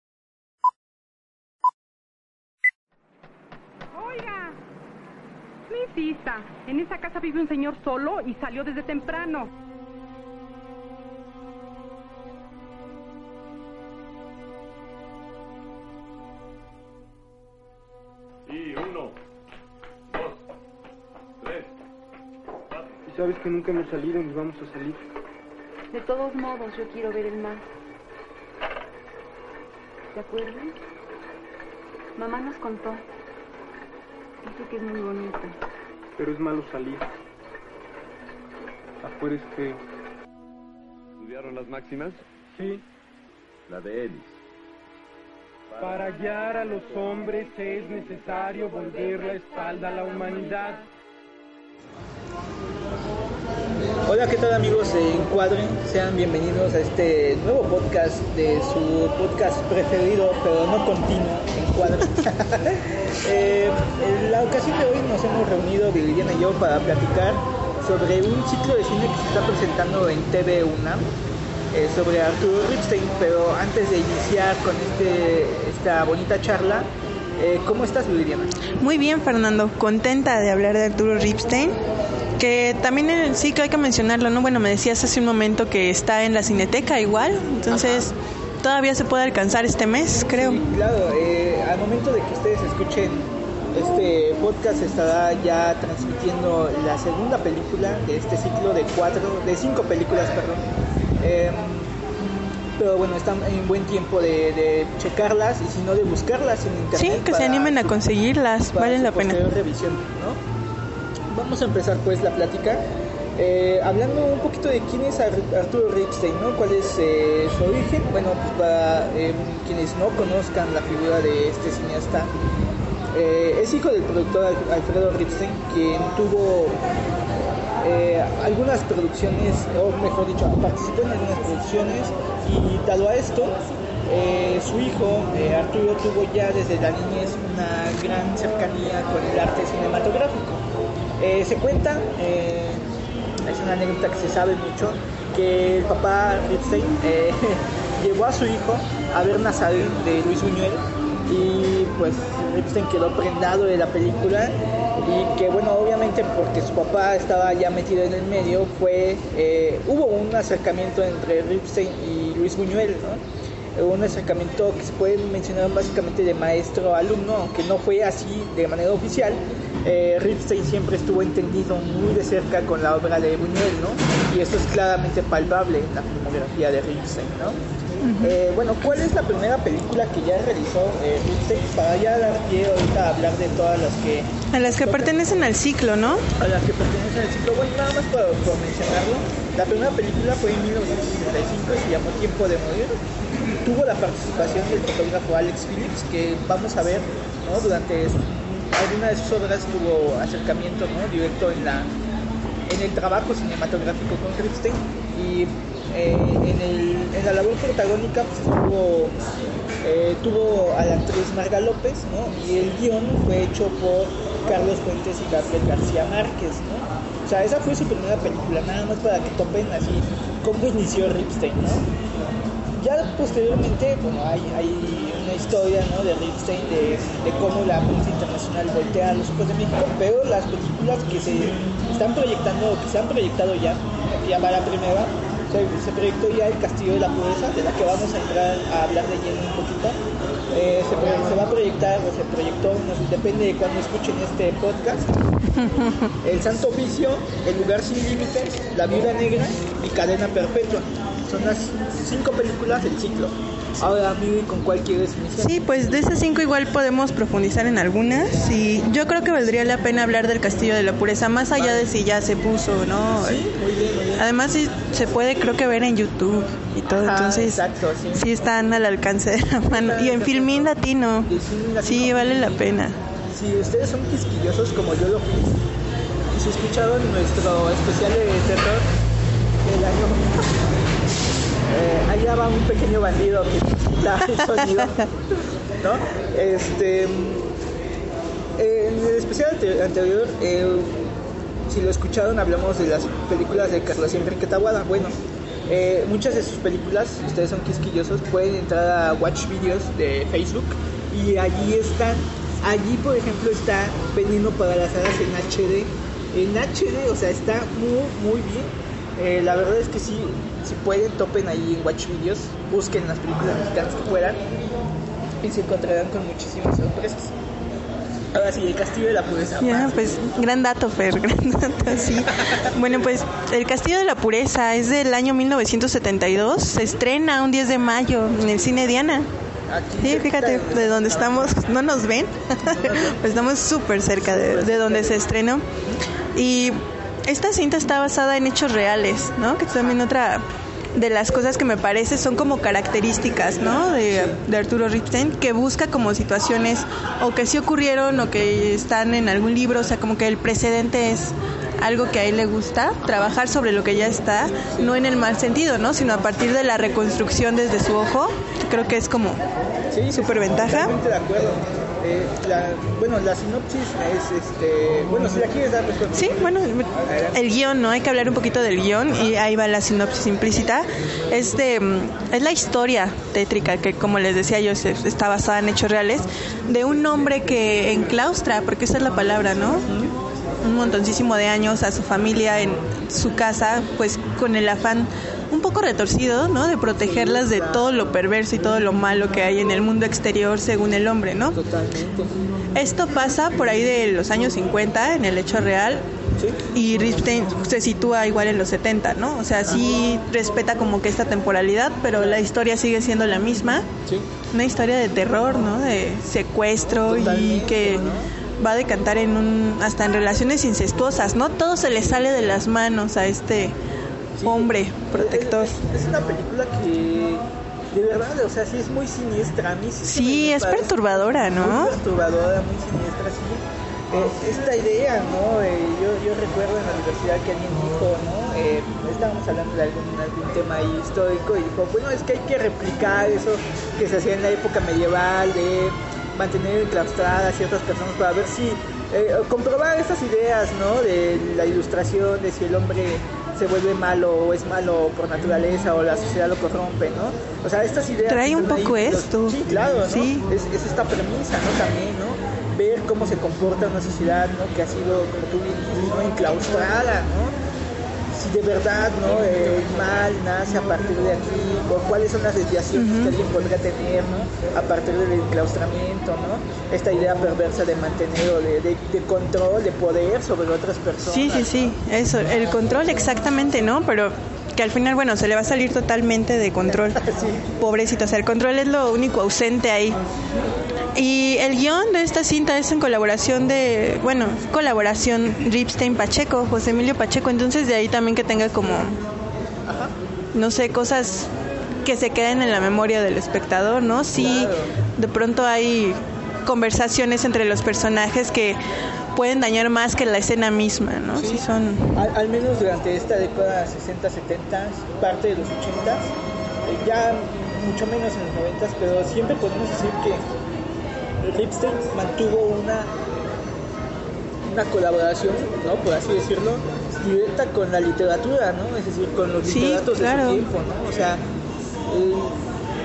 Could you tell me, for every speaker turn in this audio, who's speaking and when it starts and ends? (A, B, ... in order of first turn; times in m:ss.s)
0:03.9-0:04.6 A
0:05.7-0:09.5 A
0:18.5-0:19.2 B
0:20.1-0:20.4 B
0:21.4-0:21.7 B
0:23.1-0:25.0 C
0:25.9-0:27.6 D
0:30.1-0:30.8 D
0:32.2-0:33.0 D
0:34.4-0:35.6 D
0:36.2-0:37.1 C
0:39.0-0:39.8 C
0:41.2-0:42.2 B
0:42.5-0:42.8 C
0:43.7-0:44.4 B
0:45.7-0:46.0 B
0:45.8-0:50.9 C
0:54.0-1:11.1 E
1:11.7-1:18.5 E
1:18.8-1:21.8 F
1:22.4-1:30.6 F
1:27.7-1:28.1 E
1:30.3-1:40.7 E
1:41.2-1:41.9 E
1:42.8-1:48.0 E
1:46.9-1:49.4 F
1:48.7-1:50.4 E
1:51.3-1:52.8 E
1:53.4-2:02.3 E
2:03.1-2:06.8 E
2:07.8-2:20.7 E
2:21.2-2:22.8 E
2:23.4-2:43.2 E
2:43.7-2:57.6 E
2:58.0-2:58.4 F
2:58.2-3:05.3 E
3:04.5-3:06.2 F
3:06.3-3:13.0 E
3:13.6-3:21.9 E
3:22.7-3:29.2 E
3:29.8-3:41.8 E
3:42.8-4:00.0 E
4:00.5-4:05.1 E
4:05.5-4:06.1 F
4:06.2-4:16.0 E
4:15.4-4:23.4 F
4:21.5-4:21.9 E
4:23.1-4:24.3 E
4:24.1-4:27.6 F
4:26.9-4:28.3 E
4:28.1-4:31.3 F
4:29.6-4:32.7 E
4:31.8-4:33.0 F
4:33.3-4:35.7 E
4:36.3-4:38.9 E
4:39.6-4:40.6 E
4:41.7-4:45.2 E
4:45.8-4:47.5 E
4:48.6-4:51.1 E
4:51.7-5:14.4 E
5:15.4-5:17.4 E
5:18.3-5:20.2 E
5:19.6-5:29.3 F
5:29.7-5:31.6 E
5:30.0-5:35.6 F
5:32.6-5:33.2 E
5:34.2-5:35.2 E
5:36.3-5:59.4 F
5:43.6-5:44.4 E
5:54.7-5:55.0 E
5:59.9-6:07.4 E
6:00.1-6:00.9 F
6:06.1-6:19.9 F
6:17.2-6:17.5 E
6:19.8-6:20.1 E
6:20.6-6:31.6 F
6:27.0-6:28.1 E
6:31.5-6:32.4 E
6:32.7-6:36.0 F
6:36.7-6:43.9 F
6:42.2-6:42.4 E
6:44.5-6:48.1 F
6:47.0-6:48.3 E
6:48.6-6:53.7 F
6:54.4-7:37.5 E
6:54.4-6:55.8 F
7:00.0-7:02.0 F
7:28.3-7:30.4 F
7:38.3-7:51.9 E
7:42.9-7:43.3 F
7:51.2-7:57.2 F
7:56.9-7:57.6 E
7:57.8-8:00.2 F
8:01.1-8:09.2 F
8:09.8-8:10.1 E
8:10.5-8:11.5 F
8:12.0-8:18.8 F
8:14.3-8:14.9 E
8:19.3-8:22.2 F
8:21.3-8:30.4 E
8:31.4-8:33.1 E
8:34.6-8:41.4 E
8:39.6-8:40.7 F
8:42.1-8:42.7 E